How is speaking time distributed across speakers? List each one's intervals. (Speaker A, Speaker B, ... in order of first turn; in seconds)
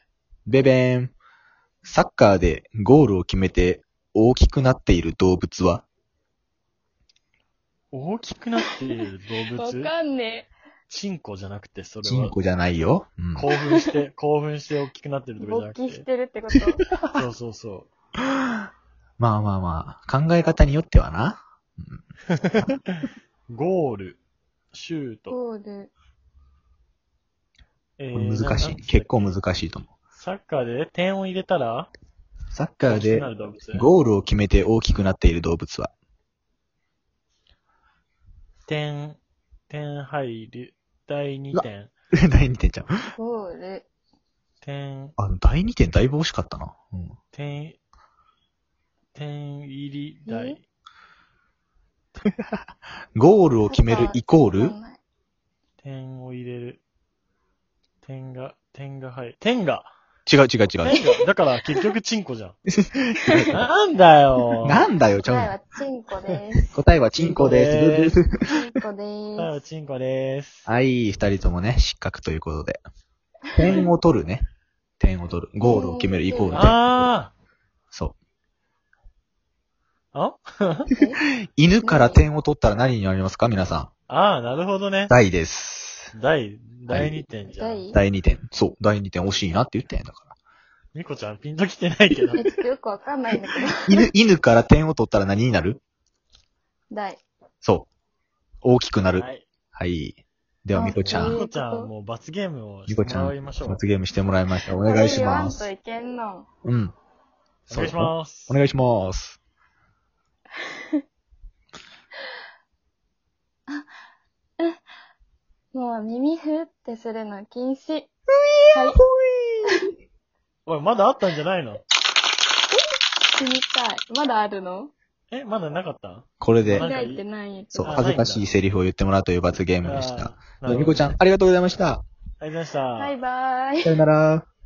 Speaker A: 0.5-1.1, 1.8-5.8, 12.0-13.5, 19.2-22.0, 28.1-29.9, 32.5-35.9, 41.5-43.1, 45.2-47.2, 52.2-52.5, 53.1-54.8, 60.3-61.0, 62.7-63.6, 64.7-65.5, 66.7-68.3, 70.7-72.8, 73.5-74.5, 75.0-77.1, 81.5-83.9, 85.1-86.1, 86.9-87.2, 87.9-90.3, 93.9-95.8, 97.6-97.9, 98.6-101.4, 102.9-105.7, 106.6-107.0, 107.7-109.4, 118.3-119.8, 126.4-126.9, 127.7-132.0, 133.8-134.5
Speaker B: 7.9-9.9, 10.9-12.4, 13.3-16.0, 17.1-17.9, 22.4-24.2, 24.7-25.4, 28.0-29.4, 30.1-31.9, 32.9-33.9, 38.7-39.2, 39.7-41.9, 44.6-45.1, 47.3-47.8, 49.1-50.6, 55.8-56.8, 58.0-59.9, 60.8-62.5, 63.5-64.8, 67.2-68.2, 69.4-70.7, 73.6-73.9, 76.5-77.3, 80.1-80.9, 84.1-85.1, 86.1-87.9, 91.0-92.5, 99.2-99.5, 101.0-103.8, 107.7-108.6, 120.7-121.8, 125.3-127.2, 127.8-128.5, 129.8-131.2, 132.4-133.2
Speaker C: 9.5-10.5, 15.4-16.9, 25.3-25.9, 43.2-43.9, 50.3-50.6, 53.7-55.0, 65.2-66.8, 68.4-69.6, 75.6-76.7, 80.9-81.2, 81.8-82.2, 87.5-88.0, 92.4-94.0, 96.9-97.2, 100.7-101.9, 104.8-106.5, 115.7-118.1, 118.7-119.0, 123.3-124.9, 126.8-128.1, 133.0-134.0